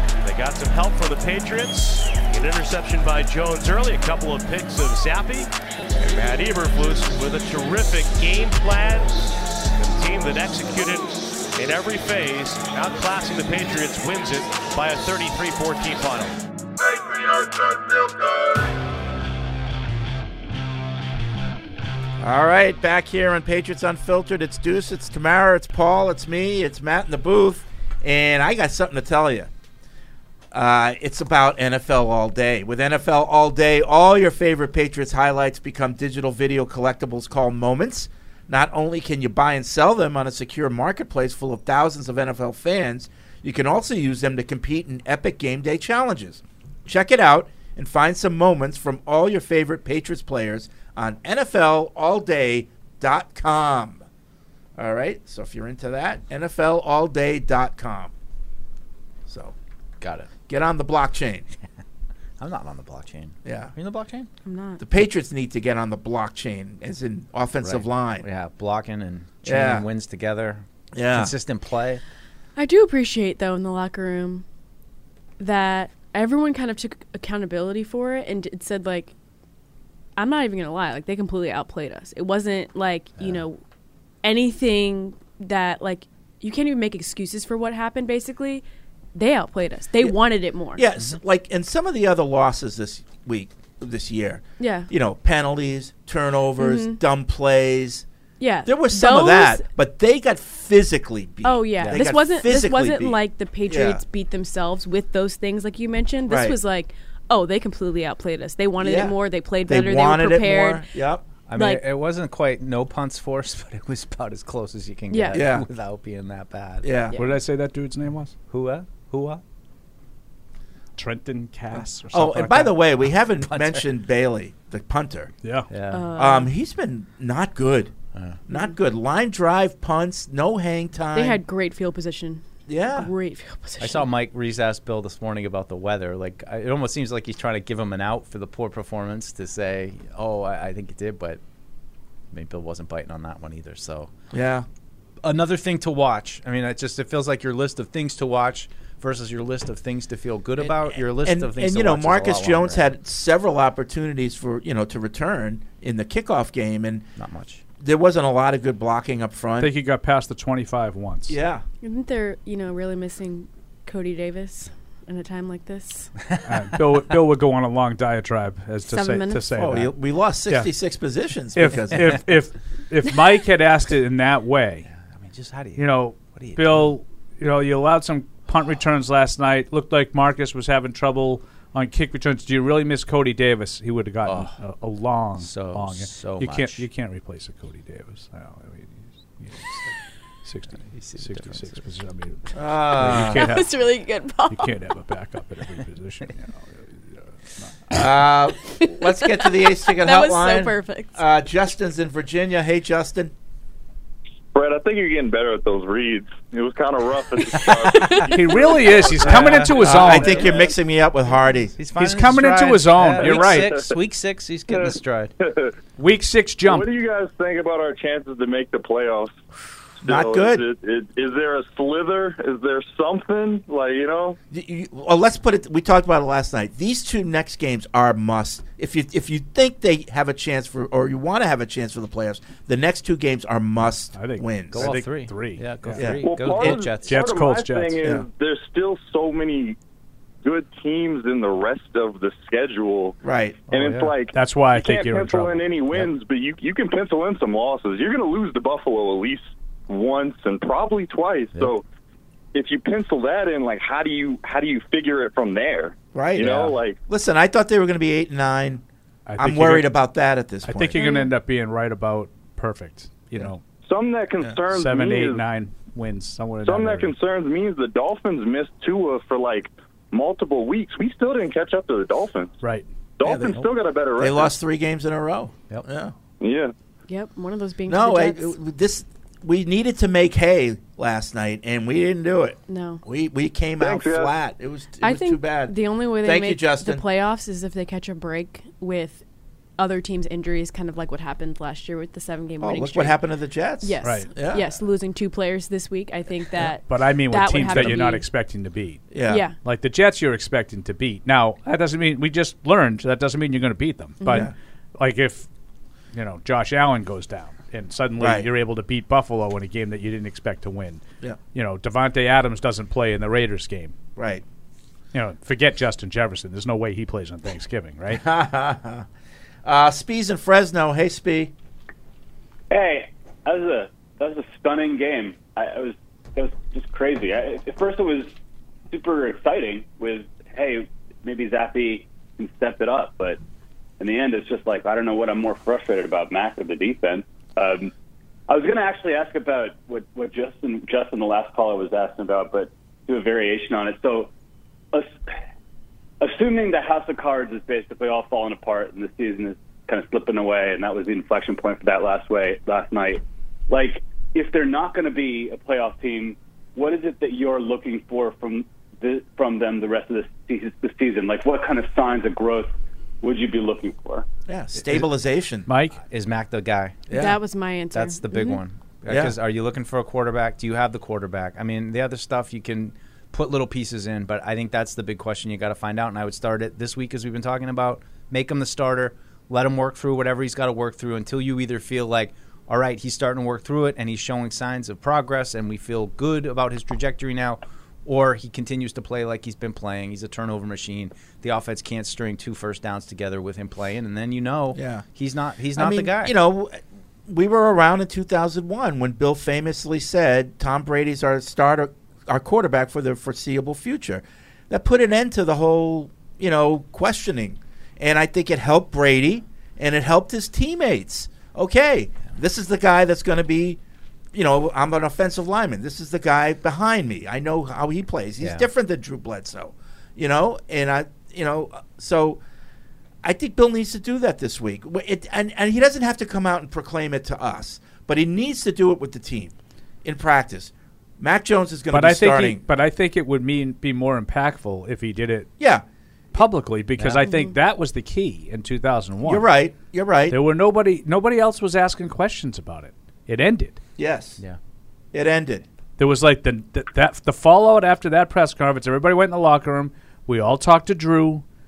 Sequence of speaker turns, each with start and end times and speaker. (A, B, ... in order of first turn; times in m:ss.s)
0:00.2-0:16.4 A
0:22.2-0:29.5 B
0:30.5-0:54.0 B
0:54.8-0:58.1 B
0:59.3-0:59.6 B
1:00.0-1:00.3 C
1:00.5-1:01.5 B
1:02.4-1:04.3 C
1:03.4-1:03.7 B
1:04.4-1:04.8 D
1:04.8-1:08.3 B
1:07.6-1:12.0 C
1:09.4-1:09.9 B
1:10.9-1:11.4 B
1:12.6-1:14.4 D
1:15.4-1:19.1 D
1:20.2-1:23.6 D
1:24.2-1:28.6 D
1:29.2-1:30.8 D
1:30.8-1:38.0 B
1:34.6-1:34.9 D
1:36.6-1:37.0 D
1:38.4-1:39.7 D
1:38.6-1:44.0 B
1:41.4-1:50.9 D
1:46.3-1:46.6 B
1:48.8-1:51.2 B
1:51.5-1:57.3 C
1:51.6-1:51.8 D
1:55.1-1:55.4 D
1:55.3-1:55.7 B
1:56.8-1:57.2 B
1:57.2-1:58.3 E
1:58.5-1:59.4 C
2:01.0-2:02.8 E
2:02.1-2:05.3 B
2:03.4-2:03.9 C
2:05.4-2:05.7 E
2:05.7-2:06.1 C
2:05.9-2:06.5 D
2:06.2-2:07.9 B
2:08.1-2:08.4 C
2:08.5-2:11.4 B
2:11.1-2:12.4 D
2:12.7-2:13.1 B
2:13.0-2:14.1 D
2:13.8-2:21.4 C
2:22.3-2:24.1 C
2:24.3-2:24.7 B
2:25.2-2:32.9 C
2:30.6-2:37.1 B
2:37.2-2:37.6 C
2:37.8-2:39.7 B
2:39.6-2:41.4 E
2:41.3-2:41.6 B
2:41.8-2:46.1 D
2:46.5-2:49.9 E
2:48.9-2:49.5 D
2:49.6-2:52.2 B
2:51.5-2:54.9 E
2:54.9-2:56.9 C
2:55.8-3:09.9 E
3:04.2-3:04.6 C
3:05.4-3:06.8 C
3:10.4-3:13.8 E
3:10.8-3:11.8 C
3:12.6-3:13.5 B
3:13.4-3:14.7 D
3:14.5-3:17.2 E
3:17.9-3:23.3 B
3:18.8-3:21.2 D
3:24.5-3:30.7 F
3:27.6-3:28.3 C
3:28.3-3:30.5 E
3:29.2-3:30.5 C
3:29.8-3:31.8 B
3:31.8-3:35.3 C
3:32.0-3:33.8 E
3:33.2-3:33.9 F
3:34.7-3:35.7 F
3:36.0-3:36.9 E
3:36.6-3:39.4 F
3:40.0-3:44.4 F
3:40.0-3:40.6 B
3:44.5-3:54.9 B
3:54.1-3:58.1 E
3:54.7-3:57.2 C
3:56.0-3:56.2 B
3:56.2-3:59.8 F
4:00.4-4:03.2 F
4:03.2-4:03.6 B
4:03.7-4:04.2 C
4:03.7-4:11.8 F
4:04.3-4:05.7 E
4:12.5-4:17.0 F
4:16.1-4:18.8 B
4:19.3-4:19.9 E
4:19.4-4:21.0 B
4:20.6-4:23.6 E
4:21.0-4:21.3 D
4:23.8-4:25.4 F
4:24.7-4:27.2 E
4:26.6-4:32.5 F
4:32.6-4:32.9 E
4:33.2-4:34.5 F
4:33.2-4:33.6 B
4:34.2-4:36.1 B
4:36.4-4:36.7 F
4:37.1-4:38.6 D
4:37.9-4:47.0 B
4:42.7-4:43.0 D
4:43.8-4:44.3 F
4:45.0-4:49.2 D
4:49.8-4:53.2 D
4:52.6-4:54.8 B
4:53.8-4:58.2 D
4:54.0-4:54.3 E
4:56.9-4:59.1 E
4:57.7-4:58.0 B
4:59.1-4:59.4 B
4:59.3-4:59.5 D
4:59.6-5:05.5 E
5:04.2-5:04.5 D
5:06.1-5:11.0 E
5:08.2-5:08.5 B
5:11.5-5:14.0 E
5:14.2-5:14.4 B
5:15.1-5:18.2 E
5:18.1-5:19.1 B
5:19.6-5:21.5 B
5:22.7-5:28.3 G
5:28.9-5:33.4 G
5:34.0-5:37.9 G
5:38.5-5:44.3 G
5:44.9-5:45.2 G
5:46.2-6:04.3 G
6:04.5-6:05.7 B
6:05.7-6:06.0 E
6:06.0-6:07.0 C
6:07.1-6:07.4 B
6:07.1-6:08.6 D
6:07.9-6:36.3 C
6:09.1-6:09.4 B
6:34.7-6:35.1 B
6:35.8-6:53.8 B
6:54.3-7:02.4 B
6:58.4-6:58.7 C
7:03.2-7:12.6 B
7:11.9-7:15.5 E
7:15.6-7:15.8 B
7:16.3-7:19.5 E
7:17.0-7:17.2 C
7:17.2-7:17.5 D
7:19.2-7:20.4 B
7:20.3-7:23.8 E
7:24.0-7:24.4 B
7:25.1-7:25.6 B
7:26.0-7:31.4 E